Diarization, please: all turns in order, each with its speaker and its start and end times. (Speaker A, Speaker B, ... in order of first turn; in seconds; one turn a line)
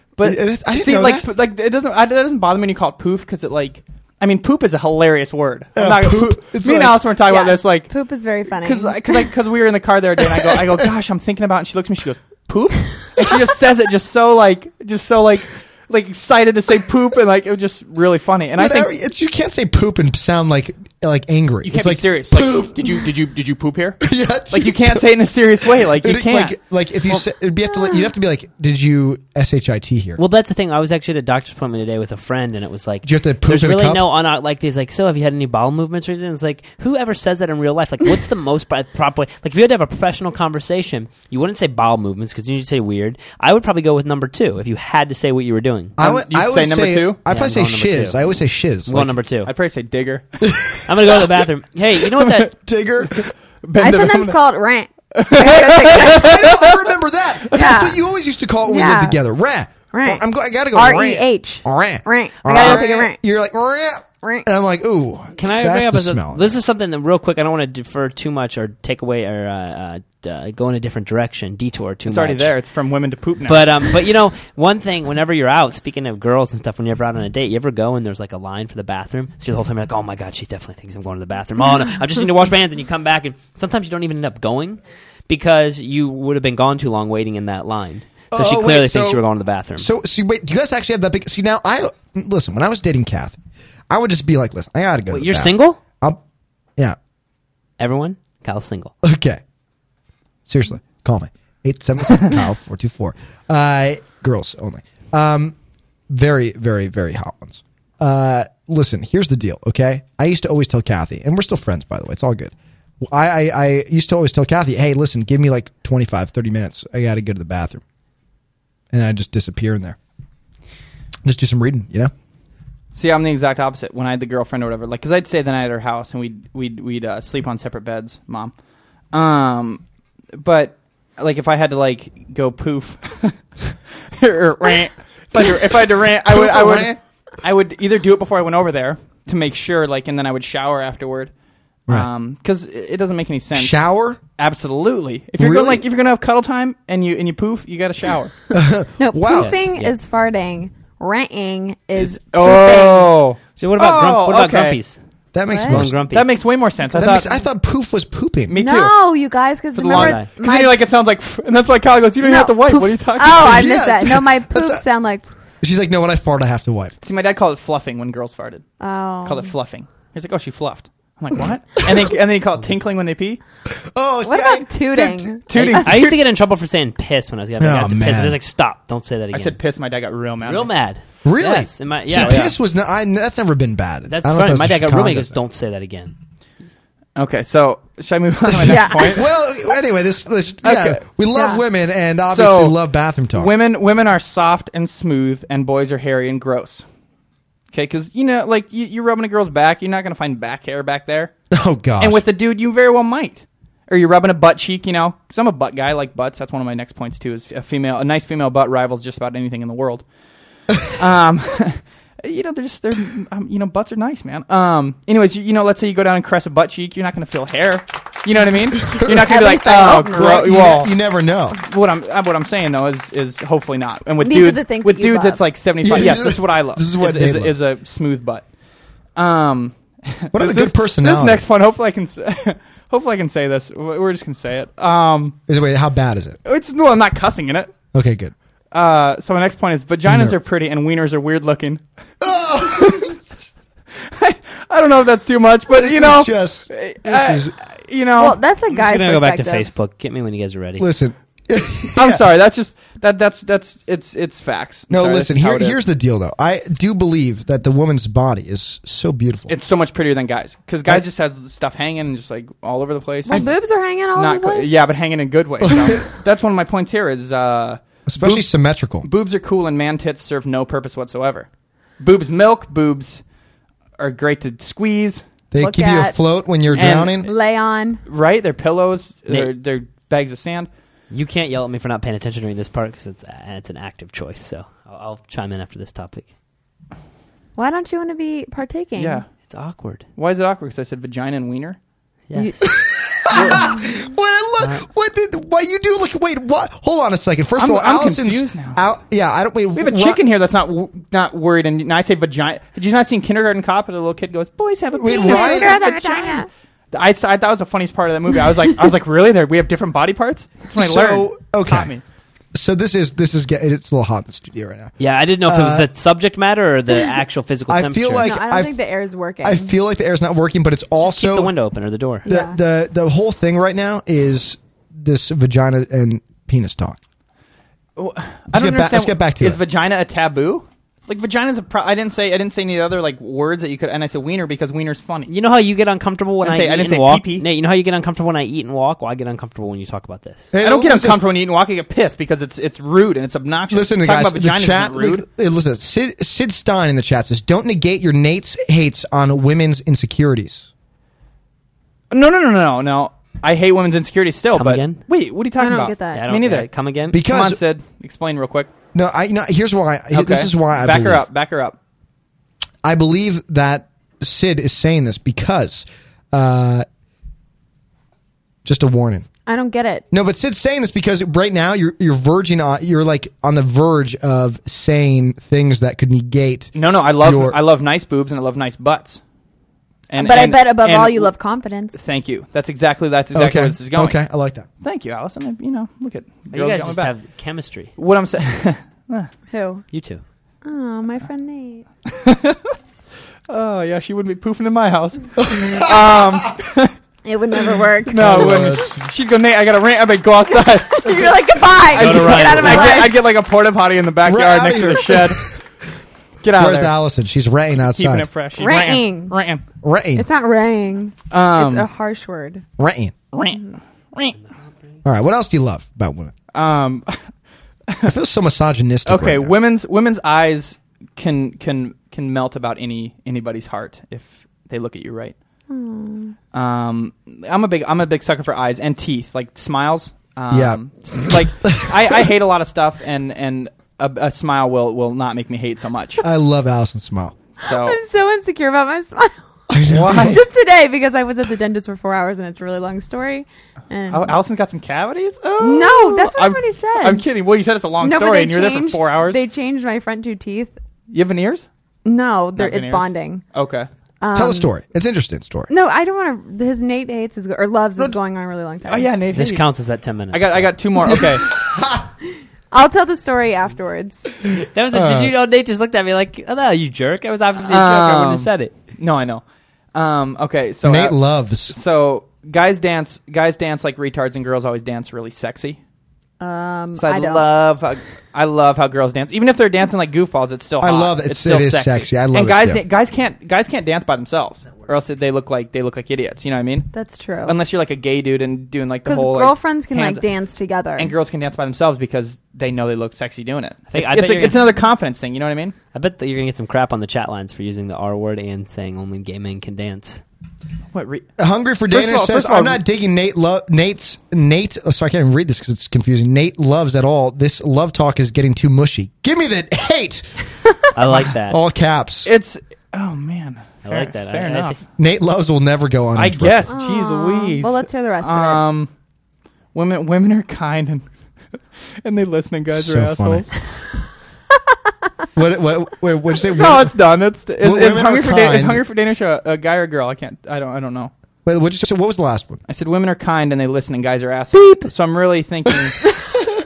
Speaker A: 0.2-7.9
Speaker B: 0.2-1.3
Speaker B: 5.8-7.0
Speaker C: 7.3-9.3
Speaker A: 8.6-18.9
Speaker B: 10.3-10.8
Speaker B: 18.6-23.0
Speaker A: 21.6-27.2
Speaker B: 24.0-30.2
Speaker D: 30.2-46.0
Speaker B: 33.0-34.1
Speaker B: 46.0-49.1
Speaker A: 46.0-47.2
Speaker D: 47.3-48.2
Speaker D: 48.9-49.5
Speaker A: 49.5-50.5
Speaker B: 50.4-51.4
Speaker D: 50.9-52.5
Speaker A: 52.2-52.5
Speaker B: 52.5-53.3
Speaker A: 53.6-54.4
Speaker C: 53.8-56.4
Speaker A: 55.1-56.9
Speaker B: 55.9-66.6
Speaker C: 57.5-58.0
Speaker C: 58.6-59.2
Speaker C: 59.9-63.2
Speaker D: 65.4-72.5
Speaker A: 72.1-73.9
Speaker D: 73.5-89.9
Speaker B: 88.3-93.4
Speaker B: 93.9-96.2
Speaker D: 95.1-95.8
Speaker D: 97.8-98.9
Speaker B: 99.0-99.4
Speaker B: 100.5-105.6
Speaker B: 106.1-117.8
Speaker B: 118.9-120.0
Speaker B: 121.2-122.1
Speaker A: 122.9-128.5
Speaker A: 129.1-129.8
Speaker A: 130.3-133.4
Speaker A: 134.1-141.3
Speaker B: 135.3-137.0
Speaker A: 141.9-143.8
Speaker B: 143.5-144.2
Speaker A: 144.4-148.3
Speaker B: 145.4-145.8
Speaker B: 148.5-149.7
Speaker C: 149.0-153.2
Speaker D: 149.3-150.0
Speaker A: 151.9-154.8
Speaker D: 153.6-155.0
Speaker B: 155.3-156.0
Speaker C: 155.5-155.8
Speaker D: 155.7-156.4
Speaker A: 156.0-157.4
Speaker B: 156.9-158.6
Speaker A: 158.5-159.0
Speaker C: 158.5-160.9
Speaker A: 159.7-163.7
Speaker D: 159.8-160.3
Speaker C: 162.2-165.3
Speaker B: 163.4-164.8
Speaker B: 165.6-167.0
Speaker A: 167.0-168.7
Speaker C: 168.8-169.5
Speaker A: 169.2-173.4
Speaker B: 173.7-175.3
Speaker C: 174.3-175.9
Speaker A: 175.5-176.2
Speaker D: 175.5-179.6
Speaker B: 177.6-178.4
Speaker A: 179.3-180.7
Speaker D: 180.4-182.6
Speaker B: 181.2-185.3
Speaker A: 182.2-182.5
Speaker D: 184.1-186.2
Speaker A: 187.2-189.4
Speaker B: 188.5-193.5
Speaker C: 188.6-189.2
Speaker A: 190.6-191.2
Speaker C: 191.3-191.6
Speaker A: 192.2-192.8
Speaker A: 193.3-196.8
Speaker A: 197.7-201.3
Speaker B: 201.5-202.2
Speaker A: 202.0-210.1
Speaker A: 211.0-220.9
Speaker C: 219.1-220.6
Speaker B: 219.7-221.6
Speaker A: 221.6-228.4
Speaker C: 224.2-225.5
Speaker B: 225.8-227.6
Speaker A: 229.2-235.4
Speaker B: 230.3-231.5
Speaker B: 235.5-236.4
Speaker A: 236.4-237.7
Speaker B: 237.9-238.3
Speaker A: 238.7-241.8
Speaker B: 240.1-240.4
Speaker B: 242.2-243.2
Speaker A: 242.7-243.1
Speaker A: 244.1-248.4
Speaker B: 245.7-247.5
Speaker C: 248.2-249.7
Speaker D: 248.7-250.9
Speaker B: 250.8-252.2
Speaker A: 251.9-255.8
Speaker B: 254.9-259.5
Speaker A: 259.5-263.5
Speaker C: 263.3-264.8
Speaker A: 264.1-268.5
Speaker B: 265.6-266.0
Speaker B: 268.1-269.1
Speaker A: 269.0-271.5
Speaker A: 272.0-273.2
Speaker A: 274.0-275.2
Speaker B: 275.5-277.3
Speaker C: 275.6-276.2
Speaker A: 276.7-277.2
Speaker C: 276.8-278.0
Speaker A: 278.1-280.7
Speaker D: 281.1-286.3
Speaker C: 287.6-289.2
Speaker A: 289.0-289.3
Speaker D: 289.5-290.1
Speaker A: 290.2-291.8
Speaker D: 292.3-292.6
Speaker C: 292.4-292.8
Speaker B: 292.7-300.2
Speaker C: 293.3-293.7
Speaker D: 294.6-294.9
Speaker A: 297.6-298.9
Speaker A: 299.8-312.0
Speaker B: 305.0-305.8
Speaker C: 305.1-306.5
Speaker B: 310.8-311.9
Speaker B: 312.5-315.9
Speaker D: 315.0-318.3
Speaker B: 317.7-318.8
Speaker C: 318.2-319.7
Speaker B: 319.4-321.5
Speaker D: 321.0-322.3
Speaker C: 322.3-322.6
Speaker B: 322.3-327.0
Speaker A: 328.0-335.3
Speaker B: 328.5-329.6
Speaker D: 335.3-340.5
Speaker A: 336.4-337.5
Speaker B: 340.5-341.2
Speaker A: 340.6-345.2
Speaker B: 343.7-350.7
Speaker A: 352.1-358.7
Speaker D: 354.5-355.0
Speaker C: 355.6-356.3
Speaker D: 356.1-357.2
Speaker B: 357.1-357.6
Speaker B: 358.9-361.3
Speaker A: 360.1-361.8
Speaker B: 362.8-366.9
Speaker B: 368.6-369.3
Speaker C: 369.5-370.1
Speaker B: 370.1-377.6
Speaker A: 376.8-379.2
Speaker A: 380.1-381.3
Speaker C: 380.1-382.0
Speaker A: 381.9-384.2
Speaker B: 383.3-384.7
Speaker A: 384.8-387.1
Speaker D: 386.5-387.9
Speaker A: 388.0-389.3
Speaker C: 389.5-389.8
Speaker D: 389.9-390.2
Speaker C: 390.6-391.9
Speaker A: 392.1-392.8
Speaker A: 393.5-396.9
Speaker B: 395.4-395.9
Speaker C: 397.2-398.6
Speaker A: 398.1-401.3
Speaker B: 398.1-399.0
Speaker C: 400.6-403.2
Speaker A: 401.8-405.5
Speaker D: 401.9-403.1
Speaker B: 404.2-405.6
Speaker A: 406.4-407.1
Speaker B: 406.5-408.3
Speaker A: 407.8-409.6
Speaker C: 408.6-409.4
Speaker B: 409.8-410.3
Speaker C: 410.2-412.6
Speaker A: 411.3-411.9
Speaker B: 412.8-413.1
Speaker A: 413.3-414.4
Speaker D: 414.3-415.0
Speaker B: 415.0-416.3
Speaker A: 416.5-417.2
Speaker A: 417.9-418.2
Speaker B: 418.1-419.6
Speaker A: 419.1-425.4
Speaker C: 425.7-426.4
Speaker A: 426.5-436.2
Speaker B: 430.5-432.2
Speaker B: 436.2-437.4
Speaker A: 437.6-438.0
Speaker C: 437.6-439.4
Speaker B: 439.7-440.4
Speaker A: 439.9-440.4
Speaker C: 440.1-444.4
Speaker A: 444.1-449.4
Speaker C: 445.6-447.3
Speaker C: 448.0-450.8
Speaker A: 451.1-451.7
Speaker C: 452.1-453.4
Speaker A: 452.6-453.9
Speaker C: 454.2-454.7
Speaker B: 454.3-455.7
Speaker C: 455.7-459.1
Speaker A: 458.9-459.7
Speaker D: 459.3-460.8
Speaker A: 460.3-461.6
Speaker B: 461.0-462.1
Speaker C: 462.7-464.4
Speaker D: 464.7-468.8
Speaker B: 464.9-465.4
Speaker A: 467.6-475.8
Speaker B: 470.8-471.8
Speaker C: 476.4-477.5
Speaker A: 476.9-486.9
Speaker B: 480.8-482.8
Speaker C: 486.9-487.6
Speaker A: 487.4-490.3
Speaker C: 489.1-491.1
Speaker A: 491.0-495.8
Speaker D: 493.9-494.7
Speaker D: 495.9-500.2
Speaker A: 500.9-501.3
Speaker B: 501.4-510.3
Speaker A: 501.9-502.8
Speaker D: 510.9-511.6
Speaker B: 511.2-512.3
Speaker A: 512.2-514.8
Speaker D: 513.8-514.8
Speaker B: 515.0-516.7
Speaker A: 516.1-518.9
Speaker C: 516.7-518.7
Speaker A: 519.7-521.1
Speaker A: 522.0-523.5
Speaker B: 522.7-523.5
Speaker B: 525.4-527.0
Speaker A: 526.5-531.1
Speaker B: 527.6-528.8
Speaker B: 531.5-532.6
Speaker A: 532.7-536.0